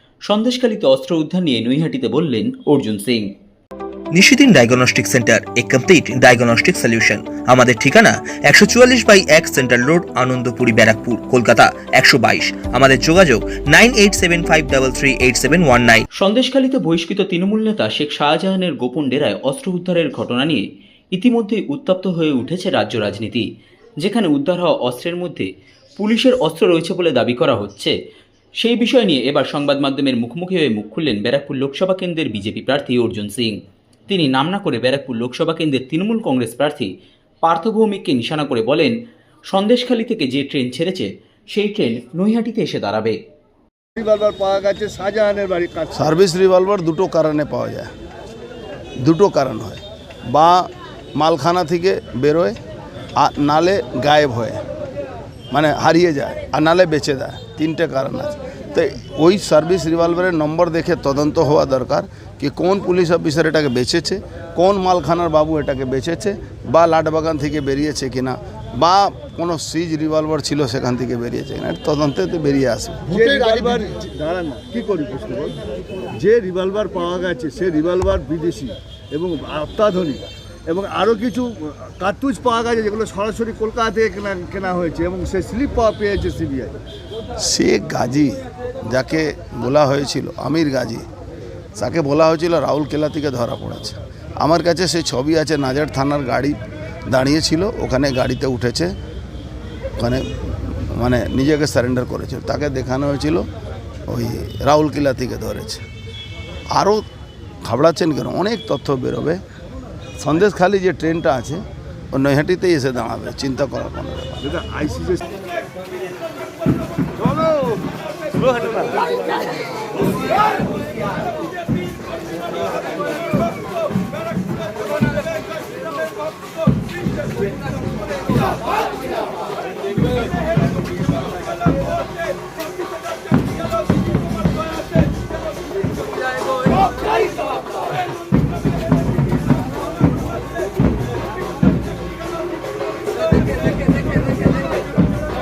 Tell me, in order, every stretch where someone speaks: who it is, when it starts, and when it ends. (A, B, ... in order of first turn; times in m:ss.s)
0:00.3-0:03.3 A
0:04.1-0:16.0 B
0:16.2-0:23.5 A
0:24.0-0:25.5 A
0:26.0-0:27.9 A
0:28.6-0:33.6 A
0:34.1-0:36.9 A
0:37.4-0:39.0 A
0:39.5-0:43.2 A
0:44.0-0:46.0 C
0:46.0-0:47.9 D
0:49.0-0:52.6 D
0:53.2-0:54.6 D
0:55.5-1:13.2 D
1:13.2-1:15.5 C
1:16.2-1:26.8 C
1:27.5-1:31.0 D
1:31.8-1:36.6 D
1:37.1-1:38.9 D
1:40.0-1:43.5 D
1:44.1-1:45.8 D
1:46.7-1:47.0 D
1:47.6-1:49.4 D
1:50.2-1:54.4 D
1:54.4-1:55.2 C